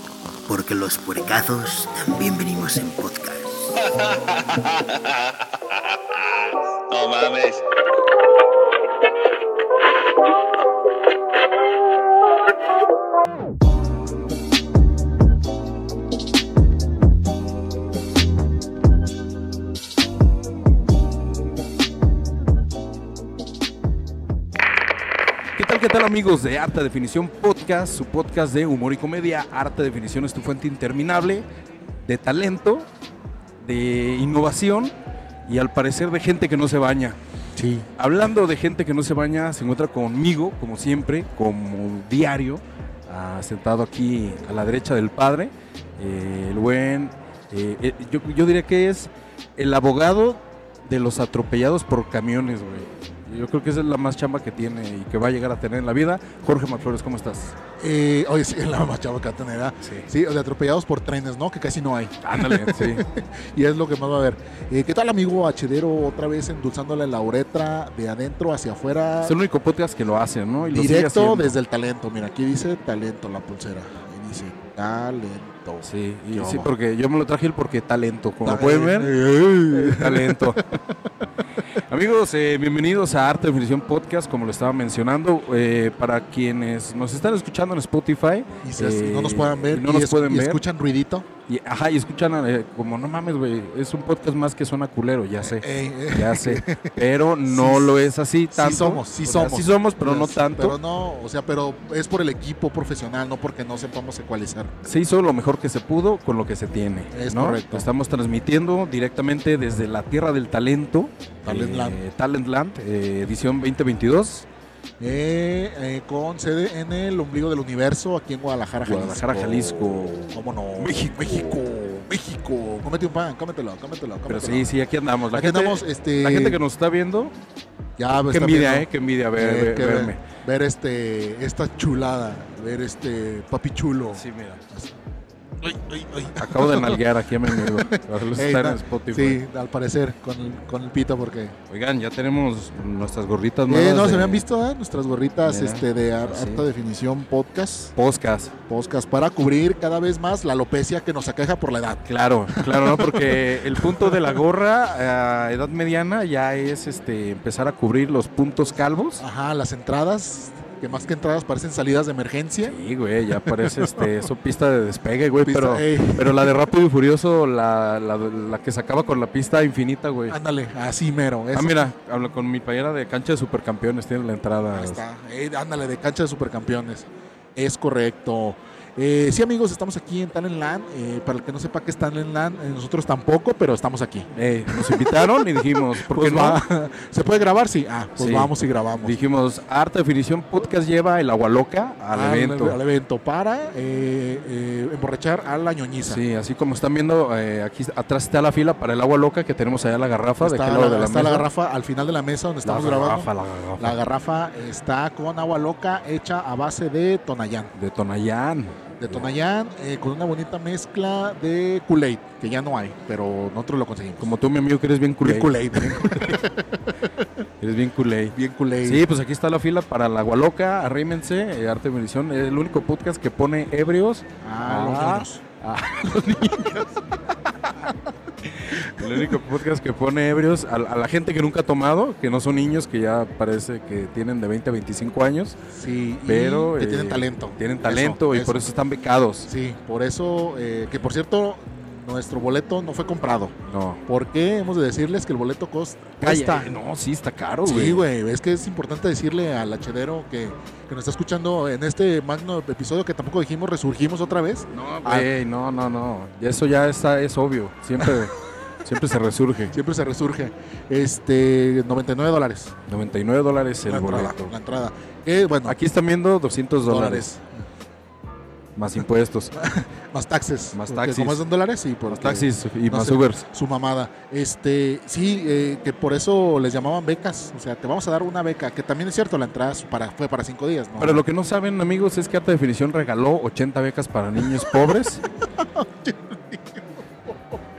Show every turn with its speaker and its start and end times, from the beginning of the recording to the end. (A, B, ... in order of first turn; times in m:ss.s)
0:00.5-0:03.8 A
0:03.9-0:07.6 B
0:25.6-0:31.4 C
0:32.0-0:32.9 C
0:33.6-0:34.9 C
0:35.5-0:37.2 C
0:37.6-0:37.9 D
0:38.0-0:57.6 C
0:57.8-1:09.4 D
0:59.8-1:00.1 C
1:02.2-1:03.0 C
1:09.2-1:11.6 C
1:10.6-1:16.7 D
1:15.8-1:20.7 C
1:18.4-1:20.8 D
1:21.6-1:30.6 C
1:28.6-1:31.3 D
1:31.5-1:40.8 C
1:35.4-1:38.0 D
1:38.5-1:44.8 D
1:44.8-1:54.5 C
1:47.1-1:47.9 D
1:51.4-1:52.0 D
1:55.0-2:04.8 D
1:58.8-2:01.6 C
2:04.3-2:07.3 C
2:05.3-2:06.6 D
2:08.0-2:14.9 D
2:08.3-2:10.2 C
2:14.1-2:14.6 C
2:15.6-2:21.6 D
2:16.4-2:19.4 C
2:21.7-2:24.5 C
2:23.7-2:27.9 D
2:25.4-2:26.7 C
2:28.0-2:28.5 C
2:28.7-2:34.4 D
2:32.1-2:39.2 C
2:39.2-2:42.8 D
2:42.7-2:50.4 C
2:43.4-2:44.1 D
2:45.4-2:46.6 D
2:50.3-2:51.9 D
2:51.5-2:55.0 C
2:54.7-3:09.2 D
3:04.4-3:06.6 C
3:08.2-3:08.5 C
3:09.0-3:12.8 C
3:12.1-3:16.2 D
3:16.1-3:21.5 C
3:20.4-3:27.7 D
3:22.6-3:24.0 C
3:27.7-3:29.3 C
3:29.0-3:34.3 D
3:34.2-3:36.5 C
3:35.2-3:37.3 D
3:37.6-3:47.0 C
3:38.3-3:39.1 D
3:44.4-3:45.4 D
3:48.4-3:55.6 C
3:48.7-3:49.3 D
3:55.7-3:58.7 D
3:56.3-3:59.5 C
3:59.5-4:06.8 D
4:03.7-4:04.0 C
4:06.2-4:08.0 C
4:07.7-4:15.3 D
4:14.7-4:19.8 C
4:18.0-4:18.3 D
4:19.7-4:22.8 D
4:22.9-4:24.6 C
4:23.8-4:25.8 D
4:25.7-4:27.3 C
4:26.8-4:27.5 D
4:28.8-4:29.5 C
4:29.6-4:41.2 D
4:30.7-4:31.4 C
4:32.1-4:33.4 C
4:41.0-4:45.2 C
4:45.6-4:47.6 D